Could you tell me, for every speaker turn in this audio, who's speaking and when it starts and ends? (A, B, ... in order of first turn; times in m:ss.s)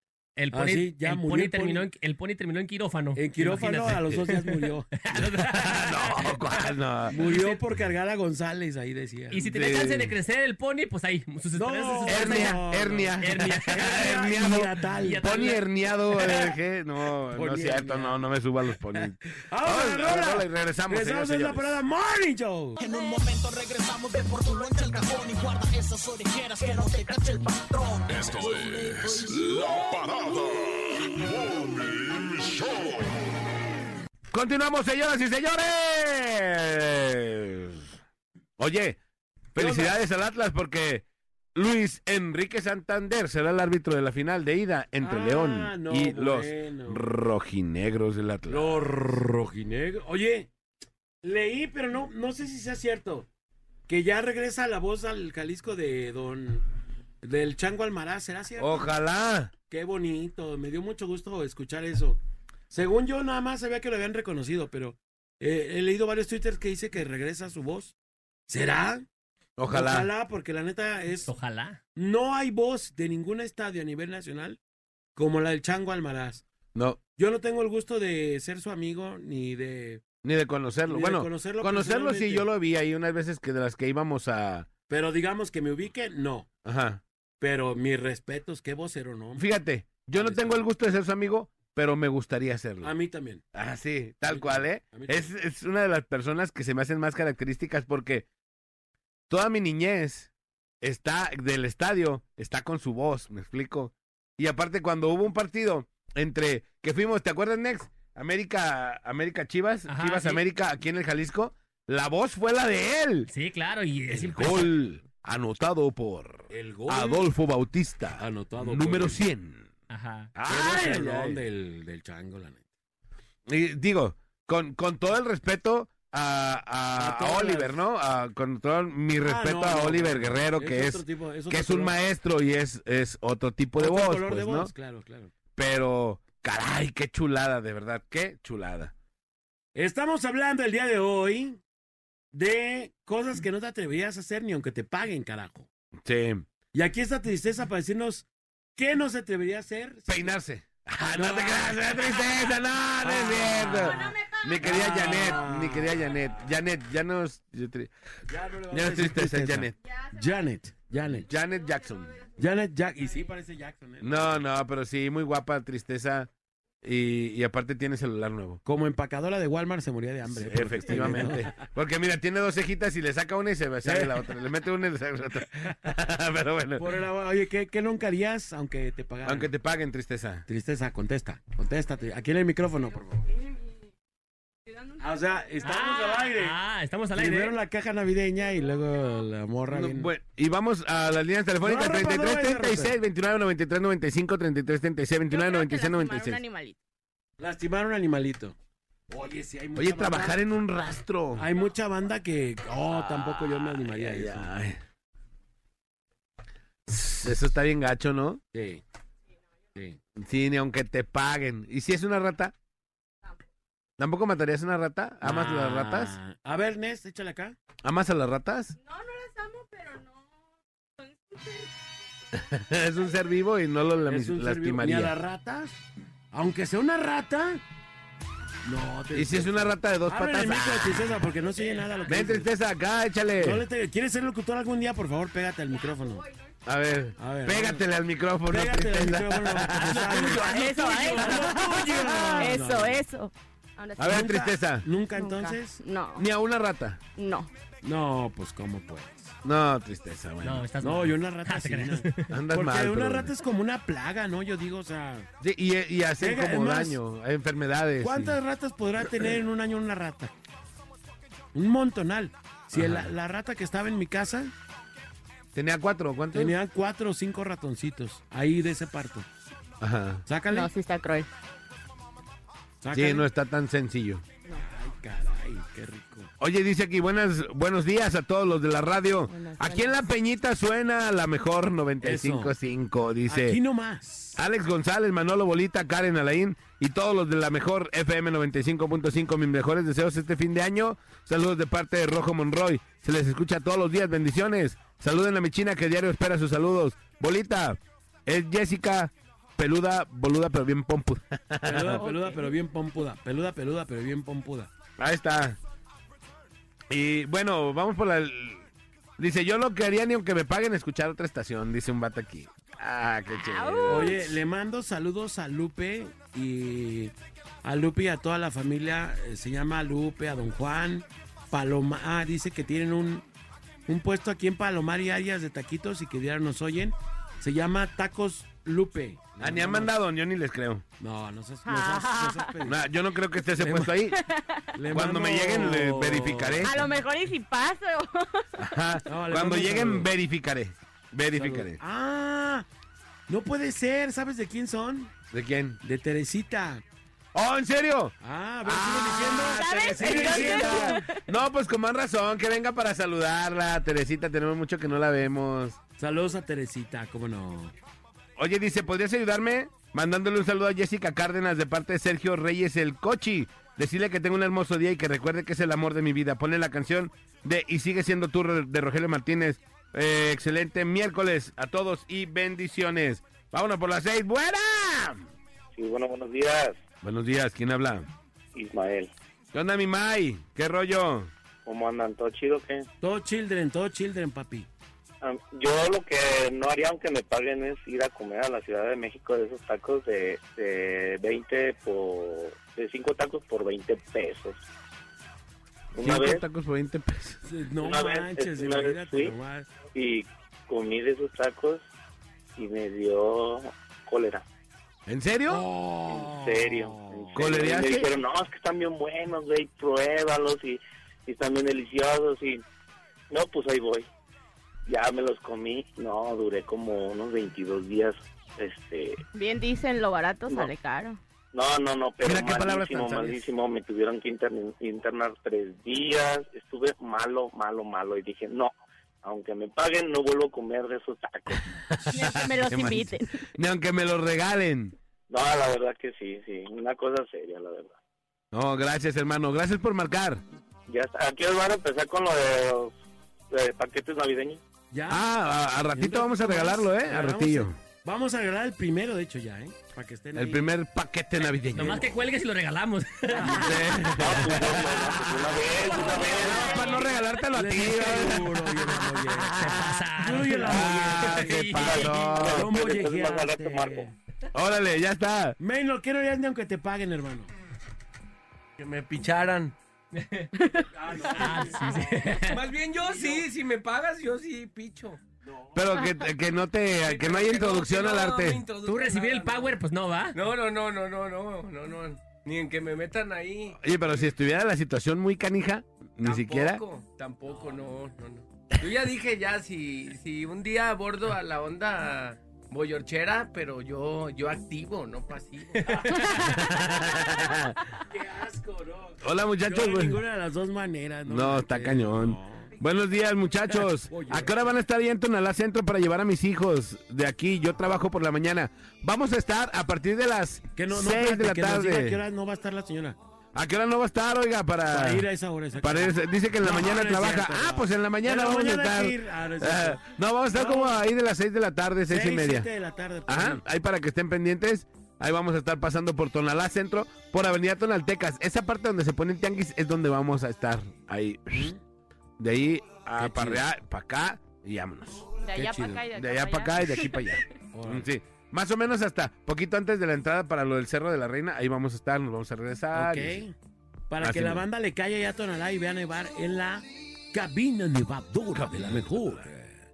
0:00.4-0:07.6 A
0:00.5-0:01.9 B
0:03.1-0:04.9 B
0:05.1-0:07.2 C
0:07.1-0:09.4 B
0:09.3-0:12.6 A
0:09.4-0:10.1 C
0:11.5-0:15.3 B
0:12.1-0:21.8 C
0:13.2-0:14.1 A
0:15.0-0:15.6 A
0:17.3-0:18.2 B
0:19.4-0:22.8 B
0:22.8-0:29.4 D
0:28.0-0:33.4 E
0:34.3-0:38.0 C
0:38.6-0:39.0 C
0:39.5-0:48.9 C
0:39.5-0:40.0 B
0:45.0-0:47.0 B
0:48.5-0:50.5 B
0:51.2-0:53.3 B
0:53.9-0:56.6 B
0:57.2-0:58.9 B
0:58.6-0:59.5 C
0:59.7-1:02.2 B
1:02.7-1:07.9 B
1:08.5-1:09.1 B
1:09.6-1:10.1 C
1:09.7-1:11.3 B
1:11.3-1:11.8 A
1:12.0-1:14.6 B
1:15.2-1:16.4 B
1:17.2-1:20.0 B
1:20.2-1:24.7 C
1:20.9-1:22.5 B
1:24.9-1:26.5 B
1:26.6-1:27.0 C
1:27.4-1:29.5 B
1:29.4-1:32.9 C
1:30.2-1:30.6 B
1:32.8-1:33.4 B
1:33.5-1:38.2 C
1:34.2-1:35.3 B
1:39.3-1:40.3 C
1:40.8-1:53.3 C
1:49.9-1:50.4 A
1:53.3-1:54.7 A
1:54.1-1:59.7 C
1:56.5-1:57.3 B
1:58.2-1:59.2 B
1:59.9-2:00.3 A
2:00.3-2:01.4 C
2:00.4-2:02.6 B
2:03.5-2:14.7 C
2:06.9-2:07.8 B
2:09.2-2:12.0 B
2:13.8-2:15.3 B
2:15.5-2:18.9 C
2:19.7-2:21.6 B
2:22.3-2:25.7 B
2:26.0-2:26.4 C
2:26.7-2:30.4 B
2:30.1-2:37.9 C
2:31.1-2:32.4 B
2:33.0-2:36.5 B
2:38.3-2:41.3 B
2:38.7-2:39.8 C
2:41.1-2:42.2 C
2:42.3-2:44.4 B
2:44.0-2:46.3 C
2:46.8-2:48.6 C
2:48.6-2:51.5 B
2:50.3-2:56.9 C
2:53.8-2:54.3 B
2:56.8-2:59.5 B
2:59.2-3:00.4 C
3:00.5-3:03.3 B
3:05.0-3:06.6 B
3:05.6-3:07.5 A
3:07.1-3:10.1 B
3:09.7-3:16.4 C
3:11.6-3:13.0 B
3:15.3-3:16.8 F
3:17.4-3:18.6 B
3:19.1-3:20.4 B
3:19.8-3:21.5 C
3:21.3-3:24.5 B
3:22.9-3:24.8 C
3:26.9-3:28.4 C
3:28.5-3:28.8 B
3:30.2-3:32.5 C
3:34.0-3:36.2 C
3:35.2-3:37.6 B
3:37.8-3:38.8 C
3:38.8-3:40.2 F
3:41.0-3:41.7 F
3:42.3-3:45.1 C
3:44.1-3:47.6 B
3:48.6-3:52.5 B
3:49.1-3:51.2 C
3:52.0-3:53.6 C
3:53.4-3:56.3 B
3:56.6-4:01.4 C
3:57.2-3:57.8 B
3:58.5-4:00.6 B
4:00.0-4:01.4 A
4:00.4-4:01.5 F
4:01.1-4:03.0 B
4:02.3-4:04.3 F
4:04.0-4:04.9 C
4:04.0-4:05.8 B
4:05.1-4:06.2 F
4:06.2-4:07.0 C
4:07.2-4:07.5 F
4:07.8-4:09.3 B
4:09.4-4:10.6 C
4:10.4-4:12.3 A
4:10.8-4:15.3 B
4:12.3-4:13.3 C
4:15.4-4:18.4 C
4:16.2-4:17.0 B
4:18.0-4:20.3 B
4:21.5-4:24.5 B
4:22.7-4:23.1 C
4:25.5-4:26.6 C
4:26.3-4:29.3 B
4:29.8-4:30.2 C
4:30.2-4:30.7 B
4:30.5-4:31.3 F
4:32.8-4:33.3 B
4:32.9-4:34.2 C
4:34.6-4:36.3 B
4:36.4-4:43.6 C
4:39.3-4:40.0 F
4:42.0-4:42.5 B
4:43.2-4:44.4 B
4:44.4-5:02.0 C
5:01.6-5:04.7 B
5:02.0-5:02.6 F
5:05.0-5:05.6 C
5:06.9-5:08.6 C
5:09.2-5:14.3 C
5:13.3-5:14.2 F
5:13.8-5:23.2 B
5:23.9-5:29.9 B
5:29.4-5:30.8 C
5:31.0-5:32.8 B
5:31.6-5:32.5 F
5:32.6-5:34.2 C
5:33.5-5:34.0 B
5:34.2-5:34.7 F
5:34.7-5:36.9 B
5:34.9-5:36.8 C
5:36.6-5:38.5 F
5:38.6-5:41.8 C
5:39.0-5:40.1 B
5:41.3-5:42.7 B
5:43.3-5:45.1 B
5:45.3-5:45.8 C
5:45.8-5:46.8 B
5:47.3-5:55.8 C
5:48.2-5:51.1 B
5:49.5-5:51.1 F
5:56.0-5:57.7 B
5:58.4-6:15.2 C
6:15.7-6:16.8 G
6:17.0-6:18.1 C
6:18.5-6:19.1 G
6:19.5-6:21.3 C
6:21.6-6:22.8 G
6:23.0-6:24.7 B
6:25.2-6:34.6 G
6:35.9-6:36.4 G
6:36.0-6:37.4 C
6:37.4-6:39.7 B
6:37.8-6:39.3 G
6:39.9-6:41.8 G
6:42.6-6:44.4 G
6:45.1-6:45.6 C
6:45.5-6:47.7 B
6:46.1-6:52.6 G
6:47.3-6:48.1 C
6:53.3-6:54.1 G
6:54.9-6:59.2 G
6:59.3-7:01.2 F
7:01.5-7:11.6 G
7:02.2-7:03.4 C
7:11.9-7:14.9 C
7:12.1-7:13.4 F
7:15.3-7:18.0 G
7:18.5-7:20.4 C
7:20.9-7:22.9 G
7:23.5-7:24.6 G
7:24.9-7:25.3 B
7:25.1-7:27.8 C
7:25.9-7:30.7 B
7:30.3-7:32.0 C
7:31.7-7:33.5 A
7:33.3-7:33.8 B
7:33.5-7:40.0 C
7:34.2-7:36.8 G
7:35.9-7:41.5 B
7:36.7-7:37.1 F
7:39.6-7:42.3 A
7:40.6-7:42.7 C
7:41.7-7:44.1 G
7:42.2-7:44.1 B
7:44.5-7:45.6 C
7:45.6-7:47.5 B
7:48.8-7:49.7 H
7:50.2-7:50.5 A
7:50.5-7:50.9 F
7:50.9-7:53.4 B
7:51.4-7:52.6 A
7:51.6-7:51.9 F
7:52.5-7:55.2 H
7:55.4-7:56.0 B
7:55.7-7:58.6 C
7:57.0-7:59.8 H
7:58.8-8:00.4 A
8:00.3-8:04.3 H
8:03.8-8:06.8 C
8:06.2-8:16.2 H
8:16.4-8:17.8 C
8:18.0-8:22.7 B
8:19.2-8:20.2 C
8:21.2-8:32.2 C
8:23.8-8:24.7 B
8:30.8-8:33.2 B
8:33.5-8:35.3 C
8:34.9-8:41.0 B
8:35.8-8:42.7 C
8:42.1-8:43.6 B
8:43.3-8:51.7 C
8:51.5-8:51.8 B
8:52.4-8:55.2 C
8:53.2-8:53.6 B
8:55.4-8:57.4 F
8:55.5-8:56.0 B
8:56.1-9:03.4 C
8:57.7-8:58.1 B
9:02.9-9:03.5 B
9:04.1-9:09.7 B
9:04.2-9:04.6 C
9:08.5-9:09.4 C